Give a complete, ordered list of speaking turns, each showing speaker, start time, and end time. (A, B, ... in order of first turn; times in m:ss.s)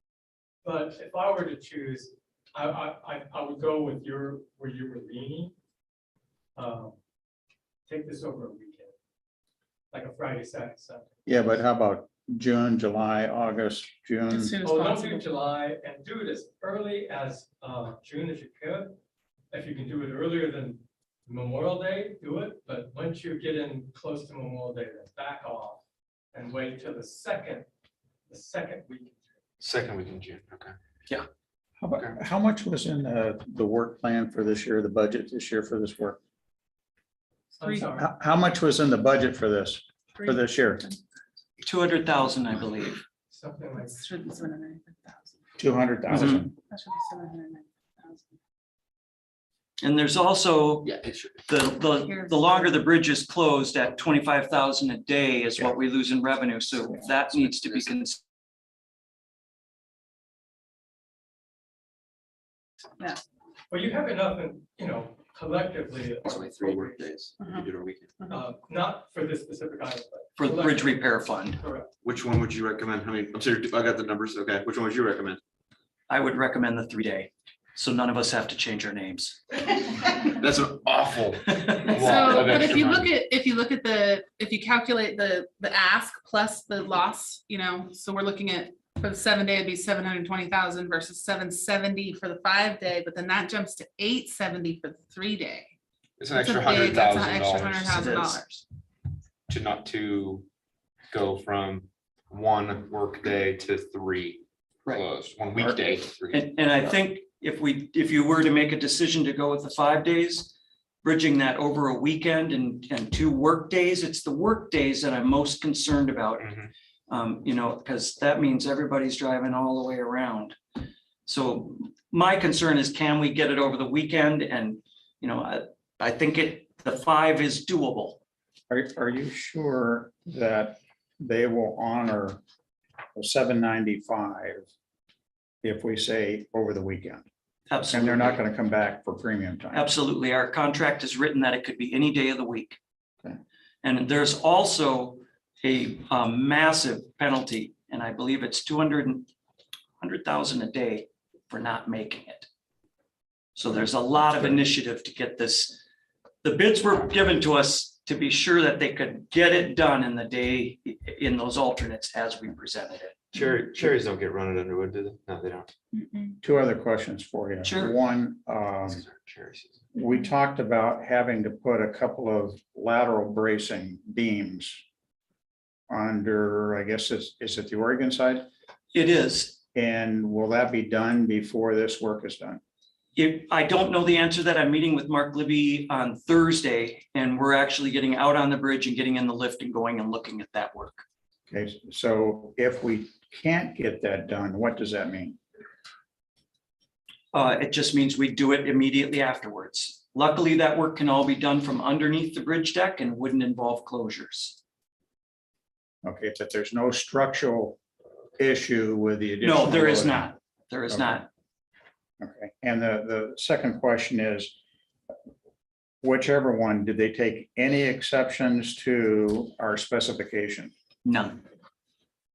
0:00.6-0:05.5 A
0:06.6-0:07.0 A
0:07.9-0:08.9 A
0:09.9-0:11.3 A
0:11.2-0:14.5 B
0:14.3-0:15.2 C
0:14.6-0:19.0 A
0:19.5-0:25.8 A
0:26.3-0:27.7 A
0:28.3-0:29.3 A
0:29.6-0:30.7 D
0:31.8-0:36.2 B
0:37.6-0:38.1 A
0:37.9-0:40.9 B
0:41.6-0:43.0 E
0:43.3-0:44.0 A
0:43.8-0:45.4 C
0:45.6-0:46.5 B
0:46.1-0:46.4 E
0:46.3-0:48.3 C
0:49.8-0:50.9 E
0:50.8-0:51.3 D
0:51.5-0:58.2 E
0:52.0-0:52.7 C
1:03.7-1:07.0 A
1:06.2-1:08.1 D
1:07.4-1:07.7 C
1:08.3-1:11.9 A
1:10.4-1:11.6 E
1:12.0-1:15.4 D
1:16.1-1:19.4 E
1:20.3-1:23.1 D
1:21.5-1:22.6 E
1:21.9-1:35.7 C
1:36.2-1:38.0 D
1:36.3-1:38.6 C
1:37.9-1:38.4 E
1:39.5-1:40.4 D
1:41.1-1:46.4 D
1:44.8-1:45.7 E
1:46.3-1:50.5 E
1:51.0-1:56.5 E
1:56.4-1:56.7 D
1:57.1-2:00.6 E
2:01.2-2:08.2 E
2:08.7-2:12.4 B
2:13.1-2:14.7 B
2:15.6-2:17.2 B
2:17.7-2:18.4 E
2:17.9-2:19.9 B
2:19.7-2:22.8 E
2:23.8-2:29.3 E
2:30.0-2:32.5 E
2:33.6-2:35.8 E
2:36.4-2:43.1 E
2:43.3-2:45.7 D
2:45.9-2:46.3 C
2:46.4-2:49.0 B
2:47.6-2:47.9 E
2:48.9-2:49.8 D
2:49.9-2:54.8 B
2:55.9-2:58.4 B
2:58.9-2:59.6 E
2:59.7-3:02.6 B
3:03.2-3:11.0 E
3:11.5-3:15.4 B
3:17.3-3:24.6 E
3:26.0-3:27.8 B
3:28.4-3:30.3 B
3:29.4-3:31.3 E
3:30.9-3:31.2 B
3:32.2-3:34.5 B
3:36.0-3:40.7 B
3:41.0-3:41.4 E